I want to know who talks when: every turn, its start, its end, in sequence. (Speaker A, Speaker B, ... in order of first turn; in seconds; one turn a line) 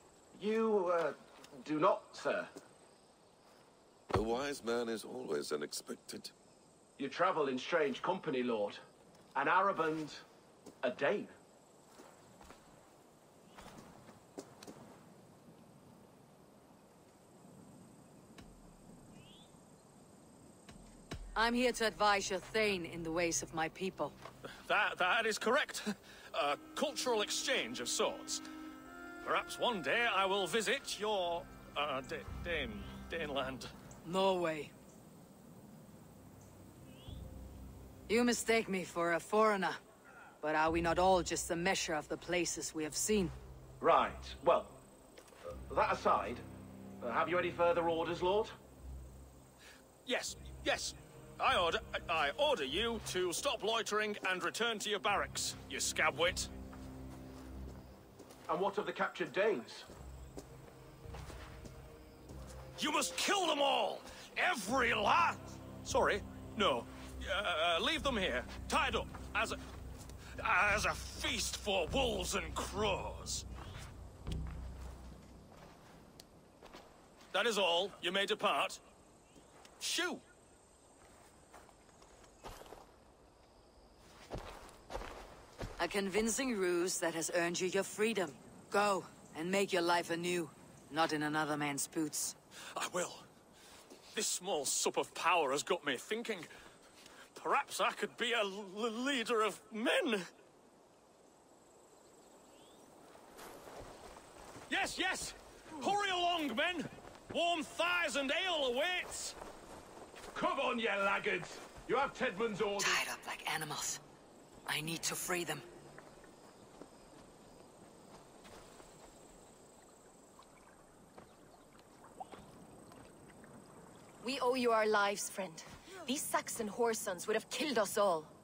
Speaker A: 0.3-2.5
Speaker B: 4.1-6.3
Speaker A: 7.0-8.8
Speaker A: 9.3-10.2
Speaker A: 10.8-11.3
Speaker C: 21.4-24.2
Speaker D: 24.6-28.4
Speaker D: 29.2-33.7
Speaker C: 34.0-34.7
Speaker C: 38.1-39.8
Speaker C: 40.4-43.4
Speaker A: 43.8-44.8
Speaker A: 45.7-46.4
Speaker A: 47.0-48.5
Speaker D: 50.1-56.5
Speaker A: 58.5-59.9
Speaker D: 62.8-69.6
Speaker D: 70.4-73.5
Speaker D: 77.3-78.8
Speaker D: 79.8-80.2
Speaker C: 85.8-92.4
Speaker D: 92.8-93.2
Speaker D: 94.1-96.5
Speaker D: 97.3-100.3
Speaker D: 104.7-109.4
Speaker A: 110.3-113.0
Speaker C: 112.8-114.0
Speaker C: 114.7-115.7
Speaker E: 124.2-128.3